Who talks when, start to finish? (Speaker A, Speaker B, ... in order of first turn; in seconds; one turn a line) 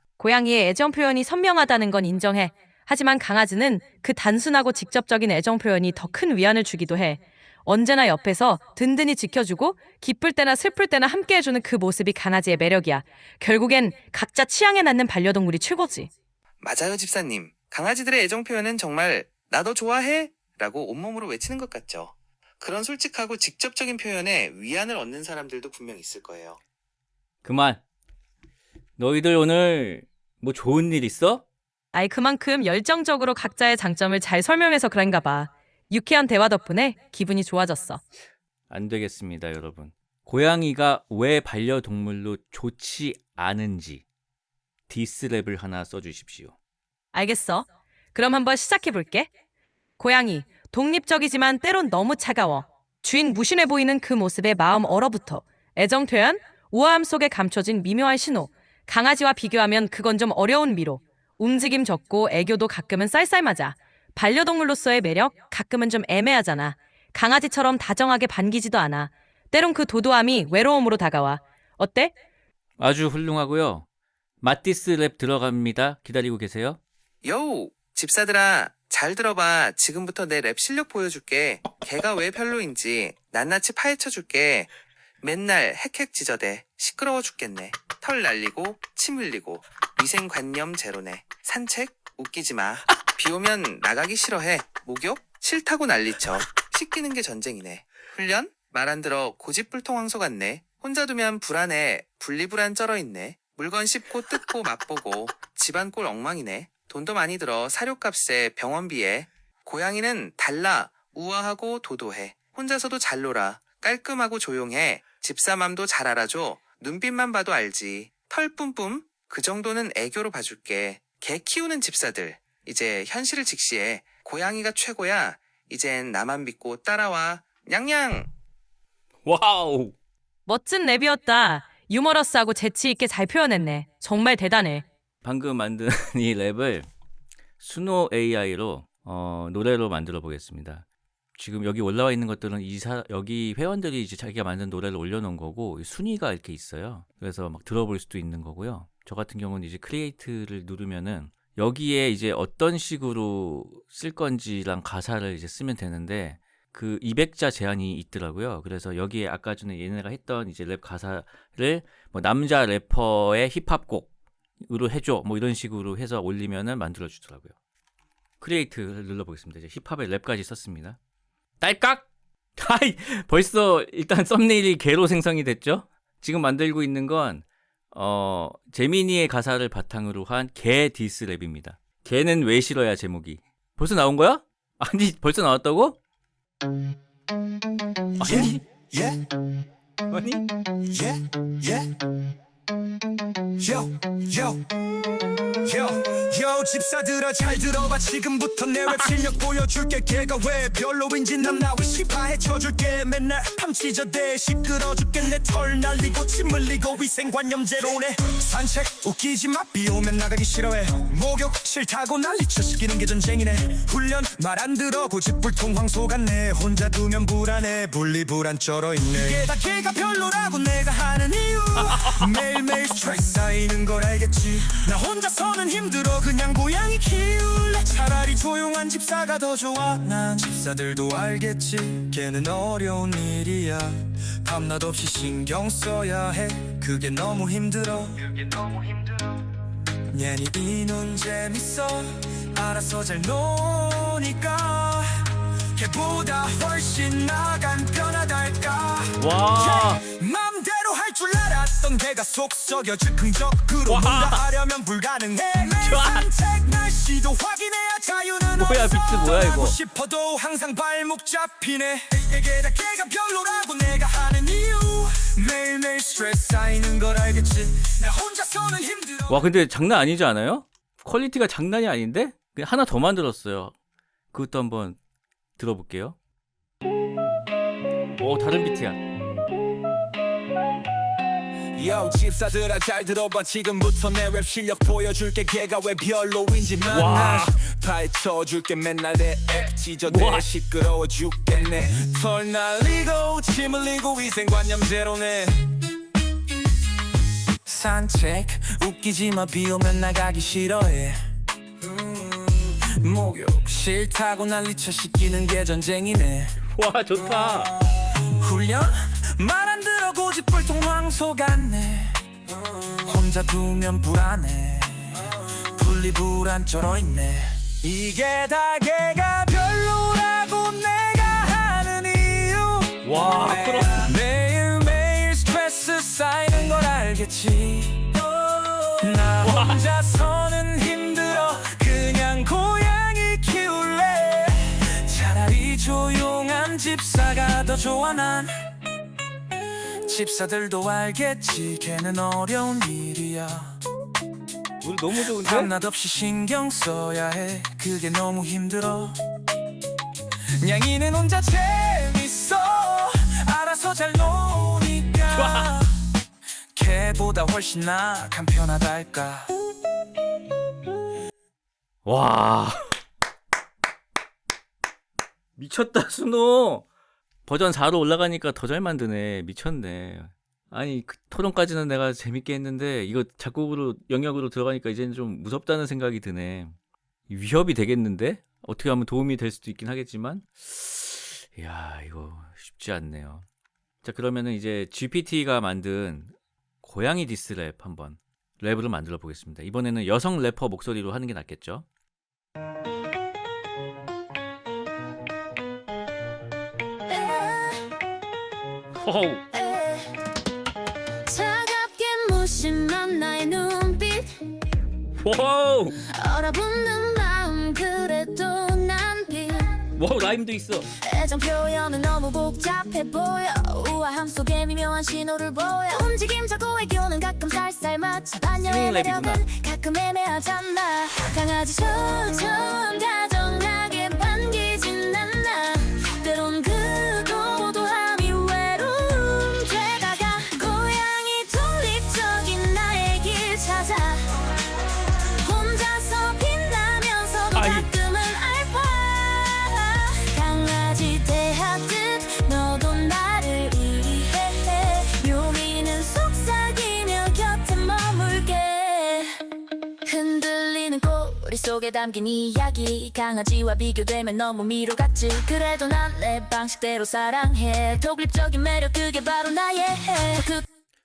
Speaker A: 0.2-16.1
Speaker B: 16.6-26.6
Speaker C: 27.4-27.8
Speaker C: 29.0-31.4
Speaker A: 31.9-38.0
Speaker C: 38.7-44.0
Speaker C: 44.9-46.5
Speaker A: 47.1-49.3
Speaker A: 50.0-72.1
Speaker C: 72.8-73.8
Speaker C: 74.4-76.8
Speaker B: 77.2-128.3
Speaker C: 129.2-129.9
Speaker A: 130.5-134.8
Speaker C: 135.2-136.9
Speaker C: 137.6-140.8
Speaker C: 141.4-164.1
Speaker C: 164.7-167.5
Speaker C: 168.4-171.0
Speaker C: 171.6-186.0
Speaker C: 188.2-188.6
Speaker D: 188.2-189.2
Speaker C: 190.1-190.4
Speaker D: 190.8-191.9
Speaker D: 193.6-194.6
Speaker D: 195.6-239.1
Speaker D: 240.1-269.4
Speaker C: 249.2-250.0
Speaker C: 253.8-254.4
Speaker C: 255.7-256.3
Speaker C: 258.6-259.8
Speaker C: 269.3-273.7
Speaker C: 274.3-275.0
Speaker C: 275.6-276.1
Speaker C: 278.2-279.0
Speaker E: 281.8-295.6
Speaker C: 286.9-287.5
Speaker C: 290.1-290.5
Speaker E: 297.6-301.2
Speaker E: 302.0-306.6
Speaker C: 306.6-307.7
Speaker E: 308.4-312.1
Speaker E: 313.0-338.5
Speaker C: 323.0-324.1
Speaker C: 329.4-329.8
Speaker E: 340.1-343.8
Speaker C: 344.8-345.7
Speaker E: 345.4-349.1
Speaker E: 350.6-355.9
Speaker C: 355.3-355.7
Speaker E: 356.7-359.5
Speaker C: 362.0-362.9
Speaker C: 365.6-366.9
Speaker C: 367.5-376.8
Speaker C: 377.3-383.4
Speaker C: 384.0-391.8
Speaker F: 397.1-397.8
Speaker C: 398.9-399.4
Speaker F: 399.5-400.0
Speaker F: 401.3-404.2
Speaker C: 405.2-406.0
Speaker F: 406.1-409.6
Speaker C: 409.9-410.9
Speaker F: 411.0-434.2
Speaker C: 418.6-419.4
Speaker F: 435.4-449.2
Speaker C: 437.5-437.9
Speaker F: 450.1-460.6